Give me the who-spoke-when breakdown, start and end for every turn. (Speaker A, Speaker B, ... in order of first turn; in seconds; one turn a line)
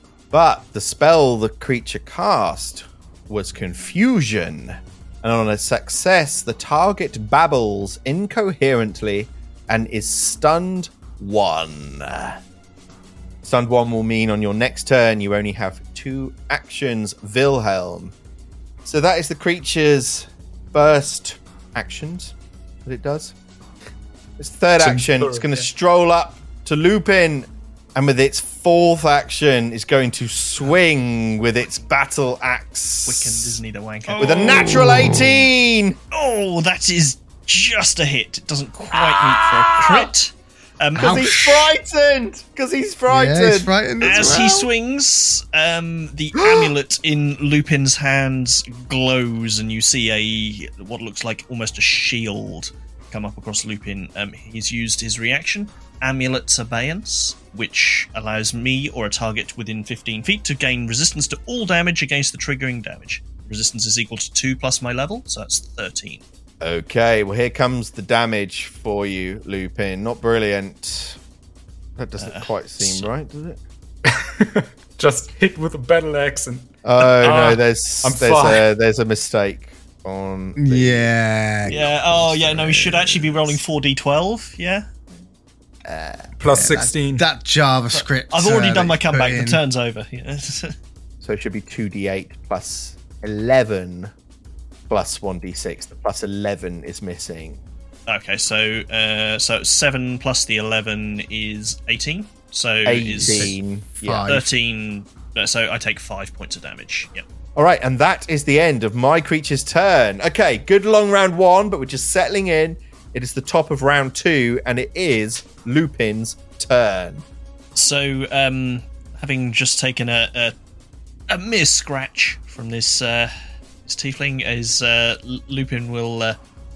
Speaker A: 0.3-12.4
Speaker A: 13.4-18.1
Speaker A: 18.8-22.3
Speaker A: 22.8-23.3
Speaker A: 24.4-33.6
Speaker B: 24.8-25.7
Speaker C: 33.0-34.8
Speaker A: 34.2-36.0
Speaker D: 34.8-35.4
Speaker C: 36.1-41.3
Speaker A: 38.9-40.1
Speaker D: 41.0-41.7
Speaker A: 41.0-44.5
Speaker D: 43.1-44.7
Speaker C: 44.0-66.2
Speaker A: 46.4-46.7
Speaker A: 66.6-71.2
Speaker A: 72.0-73.6
Speaker C: 72.2-73.1
Speaker B: 74.0-77.5
Speaker A: 76.8-81.1
Speaker C: 77.2-77.6
Speaker B: 78.0-78.6
Speaker D: 80.6-81.9
Speaker A: 81.7-83.3
Speaker C: 81.7-84.9
Speaker A: 85.8-86.3
Speaker B: 86.4-87.2
Speaker D: 86.5-89.6
Speaker C: 87.9-90.7
Speaker A: 91.2-94.1
Speaker A: 94.9-97.6
Speaker C: 98.1-103.6
Speaker A: 102.8-104.4
Speaker D: 103.2-104.5
Speaker C: 104.2-107.2
Speaker A: 107.5-117.2
Speaker C: 117.7-120.5
Speaker C: 121.3-123.3
Speaker C: 123.8-126.4